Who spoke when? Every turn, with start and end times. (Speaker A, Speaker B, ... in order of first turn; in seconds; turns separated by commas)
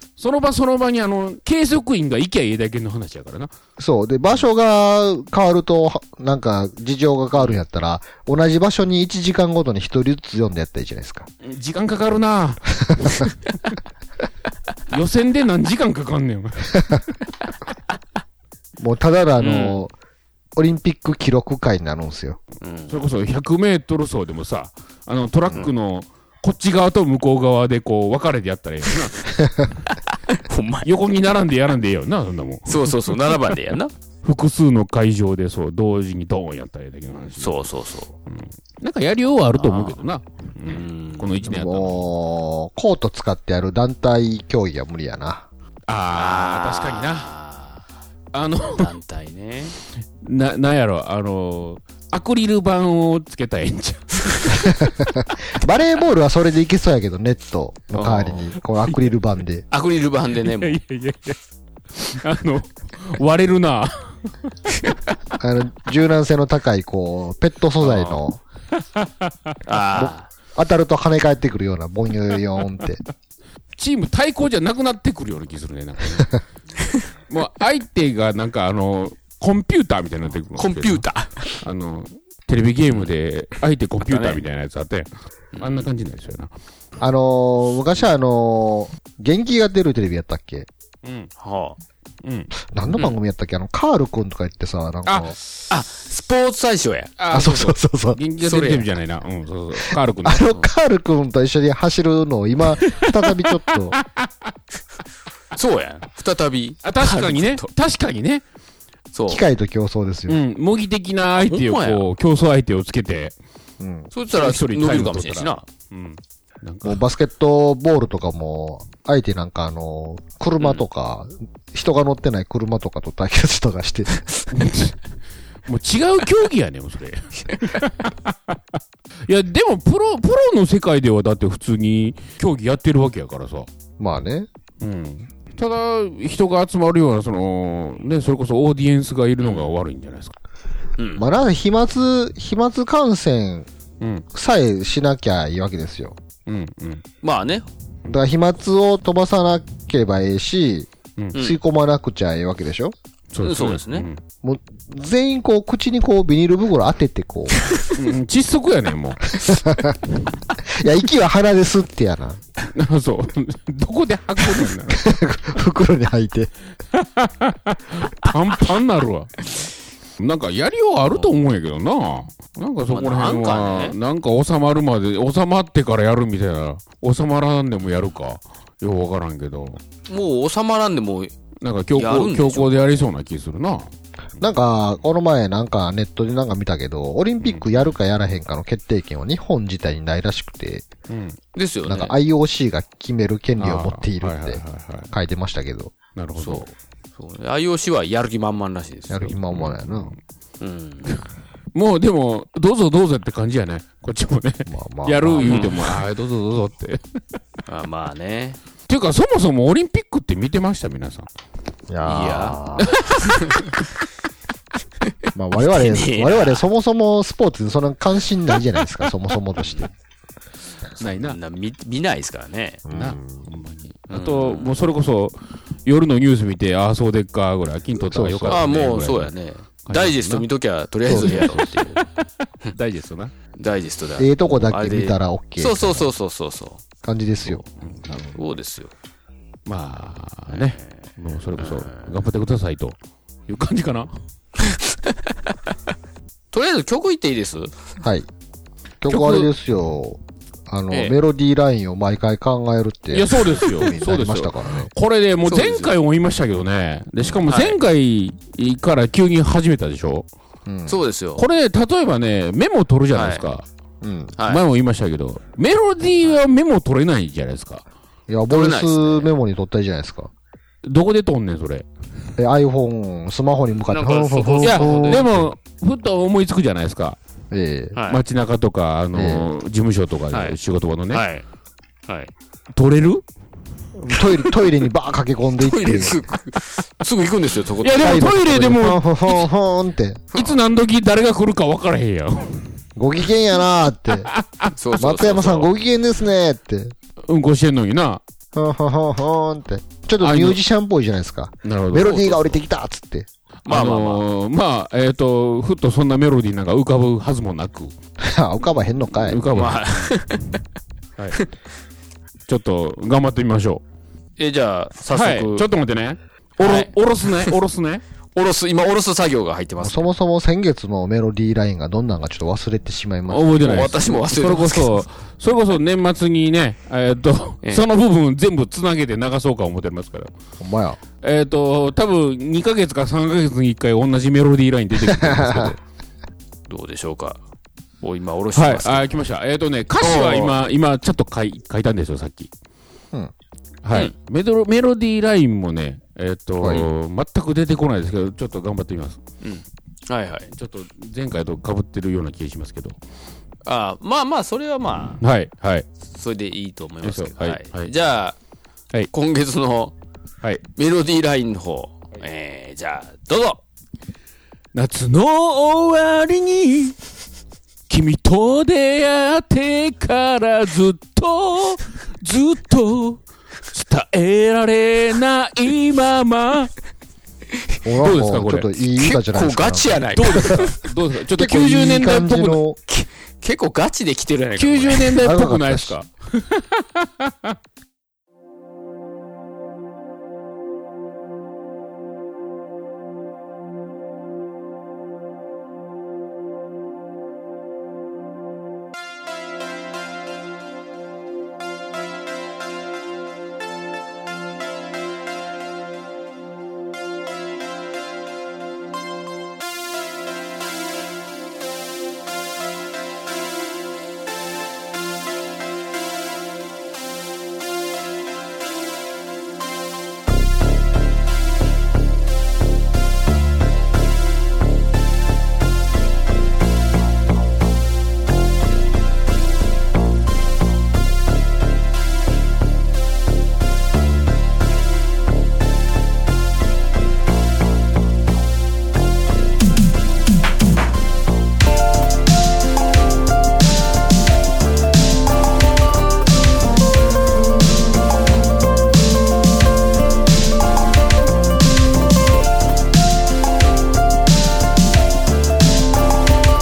Speaker A: 0.2-3.5, Speaker B: 3.8-11.3, Speaker A: 11.4-13.3, Speaker B: 12.8-13.2, Speaker A: 14.9-16.8, Speaker B: 18.8-19.9, Speaker C: 19.4-19.7, Speaker B: 20.6-22.4, Speaker C: 22.6-23.0, Speaker A: 22.9-29.4, Speaker C: 30.1-30.9, Speaker A: 30.8-33.0, Speaker C: 32.7-33.9, Speaker A: 34.2-37.5, Speaker C: 37.4-38.1, Speaker A: 38.3-42.1, Speaker C: 39.5-40.0, Speaker C: 40.6-41.3, Speaker B: 41.4-45.5, Speaker A: 45.9-47.3, Speaker C: 46.1-47.8, Speaker A: 48.3-48.9, Speaker C: 48.7-49.8, Speaker A: 50.2-54.8, Speaker B: 54.6-59.6, Speaker C: 57.9-58.5, Speaker C: 59.7-60.8, Speaker A: 60.5-61.4, Speaker A: 62.0-64.3, Speaker B: 65.4-68.4, Speaker C: 67.8-68.2, Speaker A: 68.8-69.6, Speaker C: 69.7-70.3, Speaker B: 70.0-73.0, Speaker A: 73.8-76.4, Speaker A: 77.3-81.0, Speaker C: 80.5-81.6, Speaker A: 81.6-86.5, Speaker C: 84.0-84.4, Speaker C: 85.5-85.9, Speaker B: 87.0-90.7, Speaker A: 91.0-91.3, Speaker C: 91.4-91.8, Speaker A: 92.2-92.5, Speaker B: 92.7-95.3, Speaker A: 95.1-95.3, Speaker C: 95.7-97.2, Speaker A: 97.2-100.6, Speaker B: 97.3-98.2, Speaker C: 98.4-98.9, Speaker B: 100.2-104.0, Speaker A: 102.8-103.5, Speaker A: 104.0-104.3, Speaker C: 105.5-107.7, Speaker A: 106.8-108.4, Speaker C: 109.1-109.4, Speaker B: 109.3-110.4, Speaker A: 110.3-113.3, Speaker C: 111.4-112.1, Speaker B: 113.8-114.1, Speaker C: 114.1-115.6, Speaker A: 114.3-117.0, Speaker B: 116.8-124.2, Speaker A: 124.5-125.0, Speaker A: 125.7-128.6, Speaker A: 129.2-133.7, Speaker B: 134.0-134.5, Speaker A: 134.8-140.3, Speaker C: 139.4-139.7, Speaker C: 141.0-141.2, Speaker B: 141.2-143.7, Speaker B: 144.3-146.2, Speaker A: 146.4-147.0, Speaker C: 147.2-147.7, Speaker B: 148.1-152.9, Speaker C: 151.3-151.6, Speaker A: 153.3-154.2, Speaker C: 153.4-154.1, Speaker B: 154.4-157.6, Speaker A: 157.9-159.3, Speaker B: 159.3-160.0, Speaker B: 160.6-162.4, Speaker A: 162.6-165.1, Speaker B: 164.9-166.5, Speaker A: 166.9-169.4, Speaker A: 170.2-179.8, Speaker C: 172.9-173.9, Speaker C: 180.1-181.3, Speaker A: 181.6-183.9, Speaker C: 181.9-182.9, Speaker B: 184.4-190.8, Speaker A: 191.1-191.4, Speaker C: 191.5-192.1, Speaker B: 191.8-195.9, Speaker A: 193.6-195.1, Speaker A: 196.2-196.7, Speaker C: 196.4-196.7, Speaker C: 197.2-199.3, Speaker B: 199.1-200.1, Speaker A: 199.5-200.2, Speaker C: 200.6-201.2, Speaker A: 201.7-207.2, Speaker B: 204.7-205.7, Speaker C: 205.4-205.8, Speaker C: 207.7-208.6, Speaker A: 208.9-211.3, Speaker B: 211.9-213.0, Speaker C: 212.0-213.7, Speaker B: 215.3-219.9, Speaker C: 215.6-216.6, Speaker A: 221.0-221.4, Speaker C: 221.0-222.8, Speaker B: 222.8-223.5, Speaker A: 222.9-229.3, Speaker C: 224.1-224.8, Speaker B: 228.0-228.7, Speaker C: 228.5-232.0, Speaker A: 229.8-230.4, Speaker B: 231.1-231.9, Speaker A: 231.1-232.0, Speaker A: 232.7-233.3, Speaker C: 233.6-236.8, Speaker B: 234.2-236.1, Speaker B: 237.0-237.6, Speaker A: 237.8-238.4, Speaker C: 238.3-238.9, Speaker A: 239.7-243.0, Speaker C: 240.5-240.9, Speaker C: 241.6-242.1, Speaker A: 243.5-244.1, Speaker C: 244.6-245.3, Speaker C: 246.5-247.7, Speaker B: 248.0-248.3, Speaker B: 249.0-254.9, Speaker A: 249.1-249.5, Speaker C: 250.9-251.2, Speaker A: 253.1-260.3, Speaker C: 255.4-255.9, Speaker C: 257.5-257.8, Speaker B: 260.6-261.0, Speaker C: 260.9-261.4, Speaker A: 261.4-263.6, Speaker C: 263.1-263.4, Speaker B: 264.0-264.3, Speaker C: 264.4-264.6, Speaker A: 264.4-267.8, Speaker B: 268.3-270.3, Speaker C: 268.5-269.3, Speaker A: 270.8-271.9, Speaker B: 272.4-275.5, Speaker C: 273.9-275.3, Speaker A: 274.6-277.2, Speaker B: 277.5-278.0, Speaker C: 277.9-278.2, Speaker A: 278.1-281.2, Speaker B: 279.1-279.5, Speaker C: 280.3-280.6, Speaker C: 281.1-281.4, Speaker C: 282.1-282.3, Speaker A: 282.7-283.2, Speaker B: 283.9-286.2, Speaker C: 284.2-284.5, Speaker C: 285.6-288.3, Speaker A: 287.8-289.4, Speaker B: 288.0-290.2, Speaker C: 290.3-290.6, Speaker A: 290.3-292.8, Speaker B: 292.9-294.3, Speaker A: 294.2-294.7, Speaker C: 294.8-295.7, Speaker B: 294.9-296.9, Speaker A: 297.2-298.2, Speaker B: 298.5-303.3, Speaker A: 300.2-300.6, Speaker A: 301.6-302.5, Speaker C: 303.6-304.2, Speaker A: 303.6-307.9, Speaker B: 308.2-309.6, Speaker A: 309.2-310.1, Speaker C: 309.5-310.6, Speaker A: 312.5-313.8, Speaker C: 314.4-315.7, Speaker A: 315.1-318.0, Speaker C: 316.6-317.5, Speaker C: 318.3-320.0, Speaker B: 319.8-323.7, Speaker A: 323.3-330.3, Speaker C: 323.6-325.0, Speaker B: 330.6-331.0, Speaker A: 331.2-335.8, Speaker B: 335.1-335.7, Speaker C: 336.7-337.4, Speaker C: 338.0-339.1, Speaker A: 338.5-342.5, Speaker C: 340.0-340.6, Speaker A: 343.8-349.2, Speaker C: 349.4-350.5, Speaker A: 350.5-353.0, Speaker C: 353.6-355.2, Speaker A: 355.2-355.9, Speaker C: 356.1-358.4, Speaker A: 357.0-357.9, Speaker C: 359.1-359.9, Speaker C: 360.8-363.6, Speaker A: 364.7-366.9, Speaker A: 367.9-376.7, Speaker B: 377.8-380.6, Speaker A: 378.0-378.7, Speaker C: 379.0-380.8, Speaker A: 380.1-382.6, Speaker B: 381.4-382.8, Speaker C: 382.9-385.2, Speaker A: 384.6-387.5, Speaker B: 385.2-385.9